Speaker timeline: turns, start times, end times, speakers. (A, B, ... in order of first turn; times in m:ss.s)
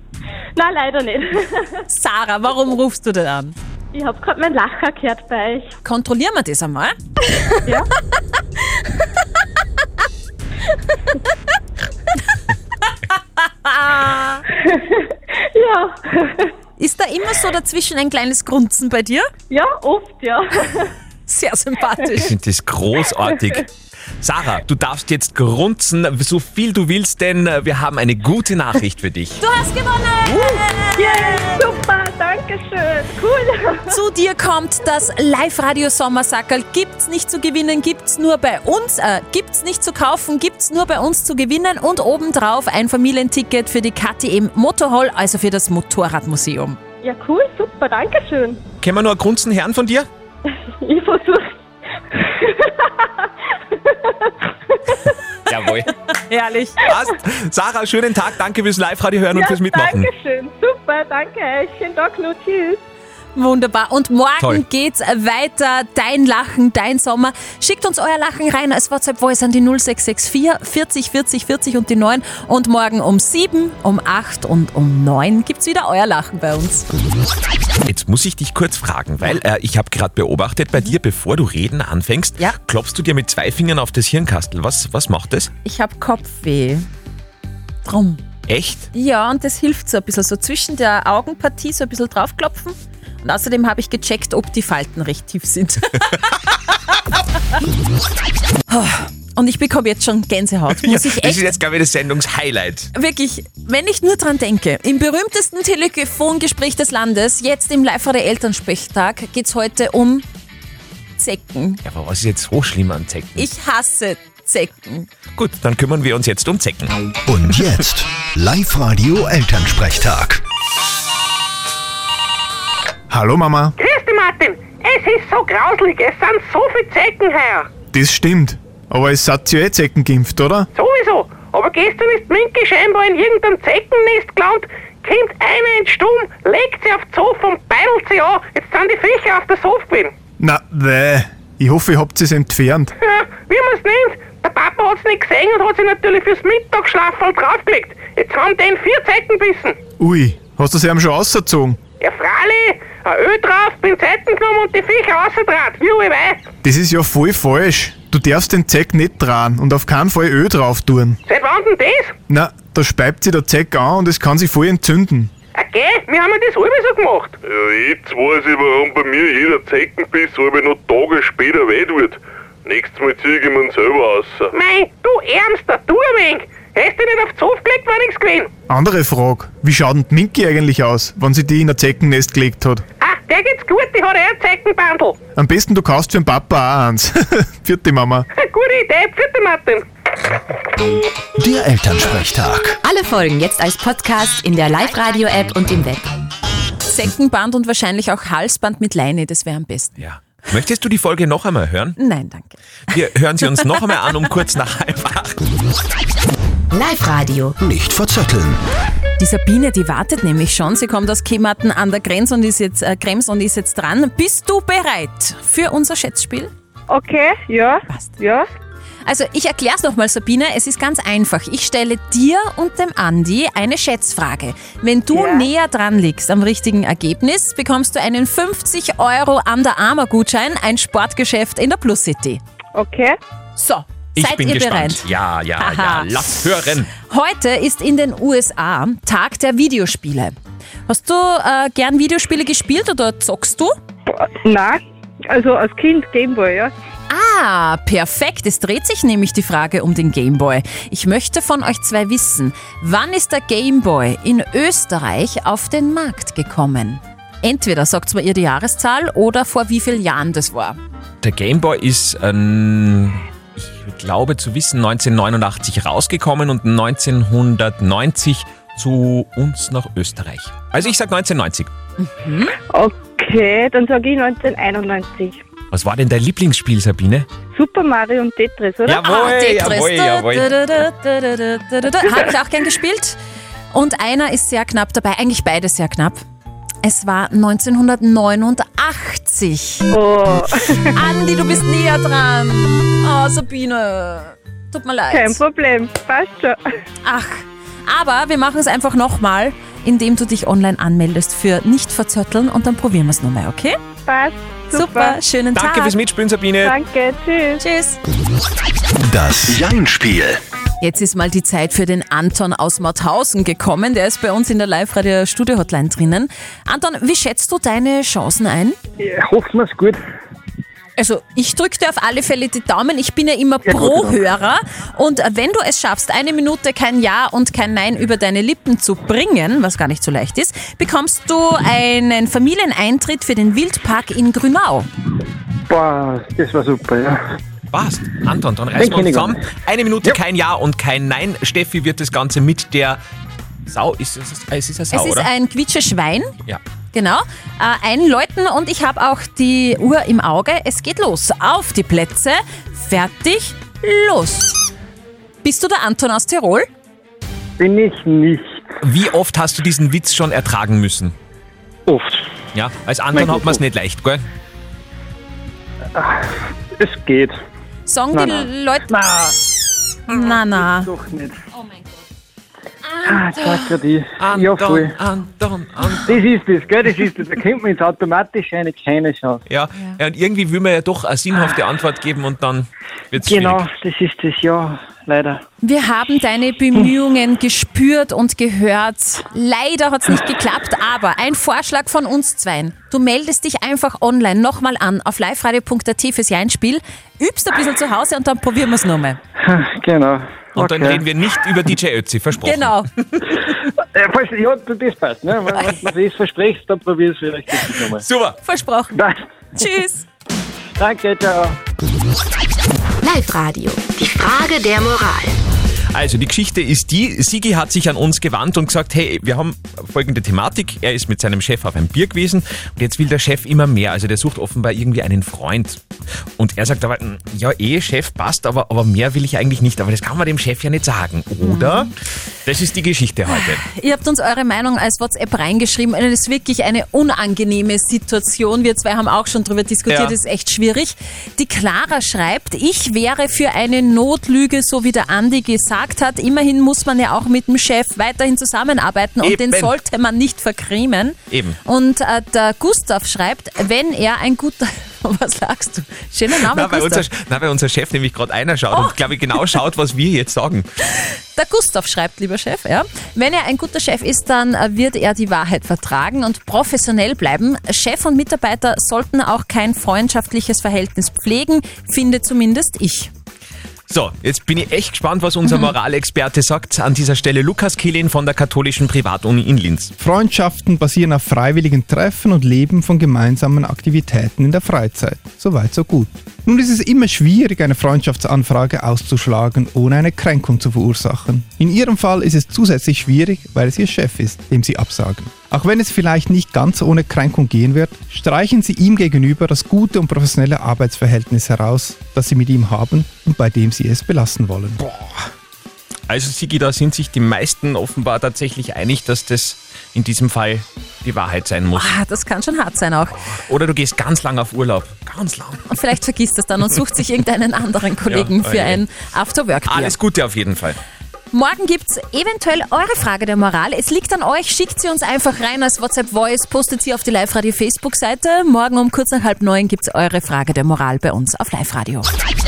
0:00.6-0:01.8 A
0:01.9-0:03.5 B
0:03.9-0:05.7 A
0:05.8-0:06.9 B
0:13.1-0:14.4 B
0:15.5-0:16.5 A
0:16.8-0:19.3 B
0:19.5-0:20.9 A
0:21.3-0:22.3 B
0:22.2-0:23.7 C
0:24.2-0:29.4 C
0:29.4-0:31.7 B
0:30.3-0:30.6 C
0:31.0-0:34.0 A
0:33.9-0:46.8 B
0:47.0-0:48.6 A
0:48.8-0:50.1 C
0:50.8-0:51.5 A
0:52.2-0:55.1 A
0:55.5-0:55.9 C
0:56.2-0:56.8 B
0:56.8-1:00.1 C
0:59.3-1:02.8 A
1:03.3-1:16.8 B
1:17.8-1:25.5 C
1:25.6-1:26.9 B
1:27.8-1:28.2 B
1:28.5-1:28.9 C
1:28.9-1:36.6 B
1:38.7-1:41.6 B
1:40.8-1:42.9 C
1:42.9-1:50.2 B
1:51.2-1:51.8 B
1:51.8-1:53.5 C
1:53.4-1:55.1 B
1:55.4-1:56.9 C
1:57.3-2:00.4 D
1:59.2-2:00.0 E
2:03.1-2:03.7 F
2:03.8-2:07.7 G
2:07.9-2:10.7 F
2:10.7-2:20.1 G
2:20.4-2:22.9 F
2:23.0-2:29.8 G
2:30.0-2:31.8 F
2:32.0-2:36.4 G
2:36.6-2:41.2 F
2:41.3-2:42.1 G
2:42.3-2:45.3 F
2:45.5-2:47.4 G
2:47.4-2:54.5 H
2:54.5-2:58.5 G
2:58.7-3:02.8 F
3:03.0-3:05.2 G
3:05.4-3:08.3 F
3:08.4-3:09.8 G
3:11.4-3:12.7 E
3:12.8-3:16.1 I
3:16.9-3:20.0 B
3:20.0-3:22.0 C
3:22.0-3:22.6 B
3:22.9-3:25.4 C
3:26.7-3:27.6 I
3:27.6-3:28.6 D
3:27.7-3:28.2 E
3:29.2-3:36.5 B
3:36.9-3:38.5 A
3:39.0-3:52.4 B
3:45.1-3:45.5 A
3:52.7-3:53.2 A
3:53.6-3:55.1 B
3:54.2-3:56.9 C
3:55.6-4:00.3 B
4:00.9-4:03.7 B
4:04.1-4:06.7 A
4:07.1-4:20.8 B
4:21.2-4:31.7 C
4:32.0-4:32.5 B
4:32.7-4:35.4 A
4:35.7-4:37.3 C
4:37.5-4:39.1 A
4:38.8-4:40.5 C
4:39.0-4:43.2 B
4:43.7-4:46.2 B
4:46.8-4:49.9 B
4:49.9-4:50.9 A
4:50.9-4:55.4 B
4:55.1-4:56.6 A
4:57.0-5:03.8 B
5:04.1-5:05.2 A
5:04.7-5:05.9 B
5:05.5-5:06.8 C
5:06.6-5:07.6 A
5:07.6-5:08.0 B
5:09.0-5:10.4 D
5:09.5-5:10.2 E
5:10.8-5:18.8 B
5:19.0-5:20.0 J
5:21.0-5:34.9 B
5:23.7-5:24.2 J
5:35.7-5:37.2 J
5:37.7-5:43.0 C
5:38.8-5:39.4 J
5:43.7-5:45.3 C
5:44.9-5:46.3 B
5:46.9-5:54.6 B
5:55.4-5:56.7 B
5:57.6-5:58.6 J
5:58.8-6:01.1 C
6:01.9-6:02.2 J
6:02.5-6:04.2 C
6:03.1-6:03.6 J
6:05.9-6:06.2 J
6:06.8-6:07.4 J
6:07.9-6:08.8 B
6:08.1-6:09.4 J
6:10.1-6:10.9 B
6:10.2-6:11.3 J
6:13.0-6:15.0 J
6:13.4-6:16.2 C
6:16.0-6:19.4 J
6:19.5-6:23.7 C
6:23.2-6:25.4 J
6:25.6-6:39.2 B
6:39.4-6:41.1 J
6:40.6-6:43.1 C
6:42.4-6:42.9 B
6:43.9-6:48.0 J
6:48.0-6:48.4 C
6:48.4-6:49.0 B
6:49.6-6:50.0 B
6:50.8-6:51.6 J
6:53.0-6:55.3 I
6:55.9-7:05.8 C
7:06.4-7:11.9 C
7:11.4-7:11.9 B
7:12.4-7:13.7 C
7:13.3-7:37.0 B
7:19.9-7:20.2 C
7:29.2-7:29.8 C
7:31.3-7:31.6 C
7:36.4-7:40.7 C
7:41.0-7:53.1 B
7:53.9-7:59.9 C
8:00.0-8:24.8 E
8:24.8-8:25.3 C
8:26.1-8:31.9 C
8:31.7-8:33.2 B
8:33.1-8:35.6 C
8:35.7-8:40.0 B
8:38.1-8:38.8 C
8:39.7-8:40.8 C
8:41.3-8:52.1 B